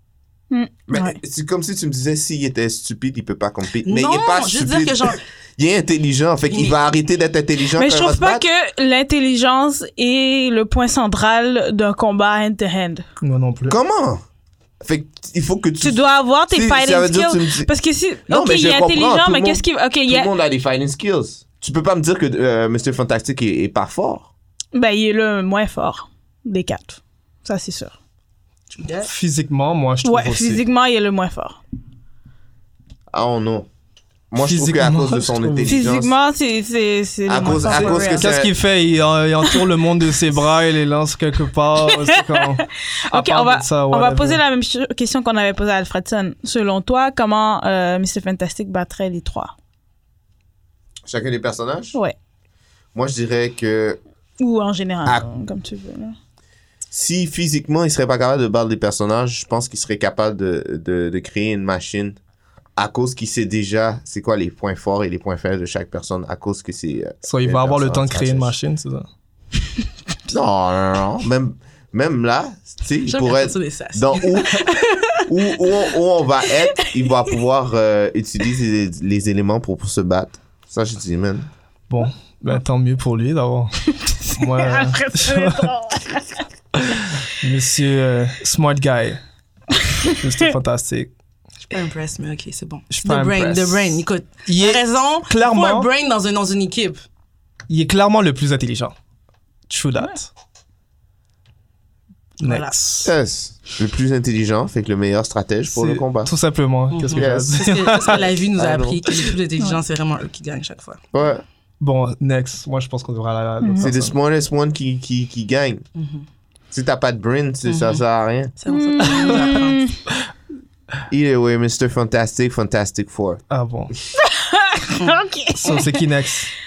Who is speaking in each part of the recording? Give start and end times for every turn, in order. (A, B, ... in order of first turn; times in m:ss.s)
0:00.5-0:01.2 A
0:00.9-0:08.4 B
0:03.8-0:05.2 C
0:06.5-0:06.8 C
0:07.8-0:13.0 A
0:13.2-0:13.8 D
0:13.7-0:14.2 B
0:14.8-0:17.7 B
0:15.8-0:20.3 A
0:18.3-0:24.3 B
0:24.7-0:28.0 A
0:28.7-0:29.1 C
0:29.0-0:30.6 D
0:30.0-0:31.6 A
0:33.1-0:33.7 B
0:34.3-0:36.1 B
0:34.4-0:35.8 D
0:35.7-0:38.3 A
0:37.3-0:38.6 B
0:37.8-0:44.4 D
0:42.0-0:49.5 A
0:51.1-0:52.0 B
0:53.0-0:54.0 B
0:54.4-0:56.2 A
0:56.9-1:02.2 B
1:02.8-1:08.6 B
1:07.2-1:09.1 D
1:10.3-1:14.7 B
1:13.1-1:15.3 C
1:15.3-1:21.5 B
1:21.9-1:25.7 D
1:24.0-1:26.4 A
1:26.9-1:29.2 D
1:30.2-1:31.1 D
1:31.7-1:37.0 C
1:32.9-1:35.9 D
1:37.7-1:39.0 D
1:39.7-1:40.3 D
1:42.4-1:42.7 C
1:42.4-1:43.1 D
1:43.0-1:46.3 B
1:45.7-1:48.3 D
1:46.9-1:51.0 C
1:47.1-1:47.6 B
1:48.6-1:49.1 B
1:51.1-1:51.4 B
1:51.8-1:54.1 D
1:53.6-1:53.9 A
1:53.8-1:55.8 B
1:56.0-1:56.2 C
1:56.7-1:58.5 B
1:57.7-1:58.0 C
1:58.6-1:59.8 C
1:58.7-2:00.0 A
2:01.1-2:03.4 B
2:03.5-2:03.9 D
2:04.2-2:06.0 A
2:05.6-2:06.5 D